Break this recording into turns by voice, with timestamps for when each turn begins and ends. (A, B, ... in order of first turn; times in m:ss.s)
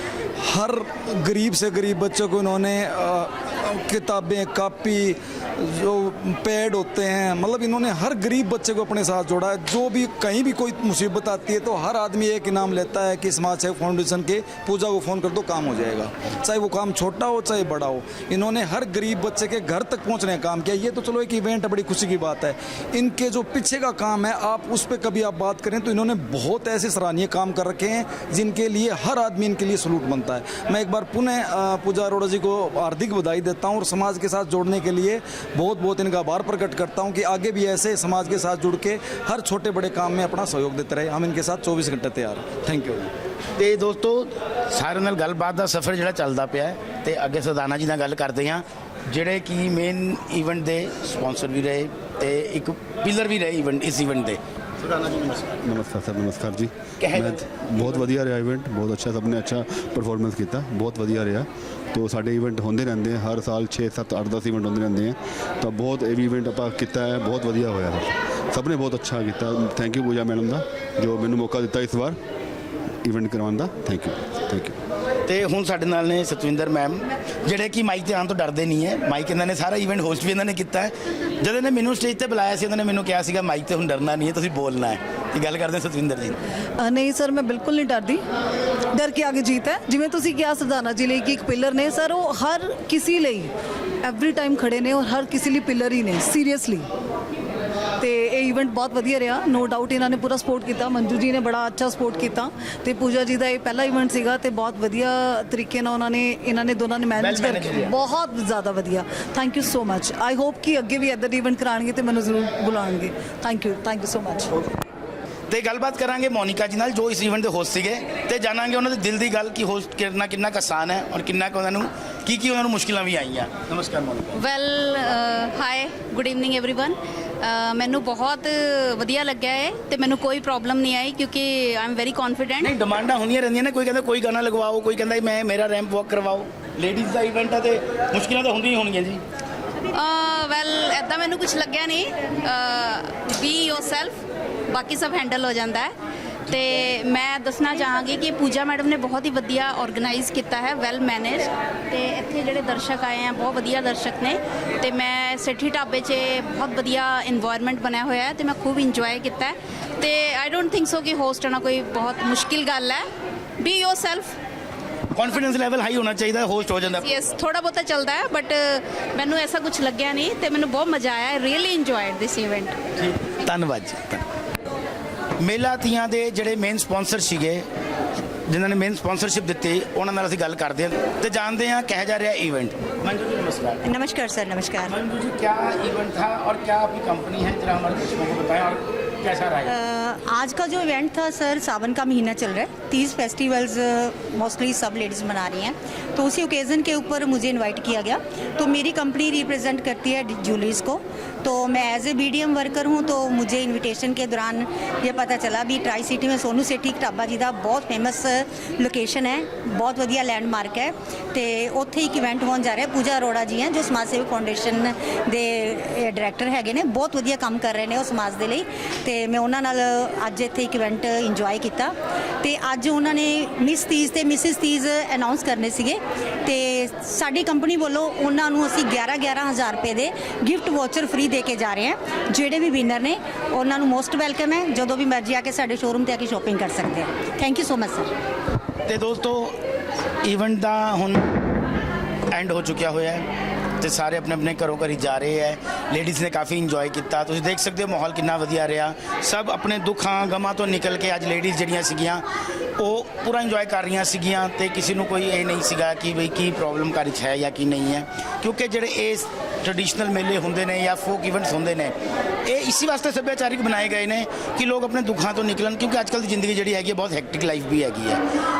0:00.4-0:43.1 A
0:43.1-0:55.6 B
0:55.6-1:12.2 C
0:57.0-0:58.1 B
1:13.0-1:14.8 C
1:15.2-1:26.4 B
1:26.8-1:28.2 D
1:29.0-1:33.5 D
1:34.0-1:36.8 D
1:38.0-1:54.5 D
1:47.2-1:47.9 B
1:55.5-2:04.4 B
2:04.3-2:12.7 E
2:12.6-2:19.2 B
2:19.9-2:25.9 E
2:26.4-2:26.8 B
2:26.5-2:43.0 E
2:43.6-2:44.4 E
2:45.1-2:47.3 B
2:46.9-2:52.8 E
2:53.0-2:54.2 B
2:55.4-2:57.6 B
2:58.5-3:03.8 B
3:03.8-3:04.9 F
3:04.8-3:09.8 B
3:09.7-3:58.1 F
3:58.8-3:59.6 B
4:00.2-4:01.2 B
4:02.3-4:03.3 B
4:03.8-4:12.2 B
4:12.8-4:21.9 B
4:22.4-4:28.2 B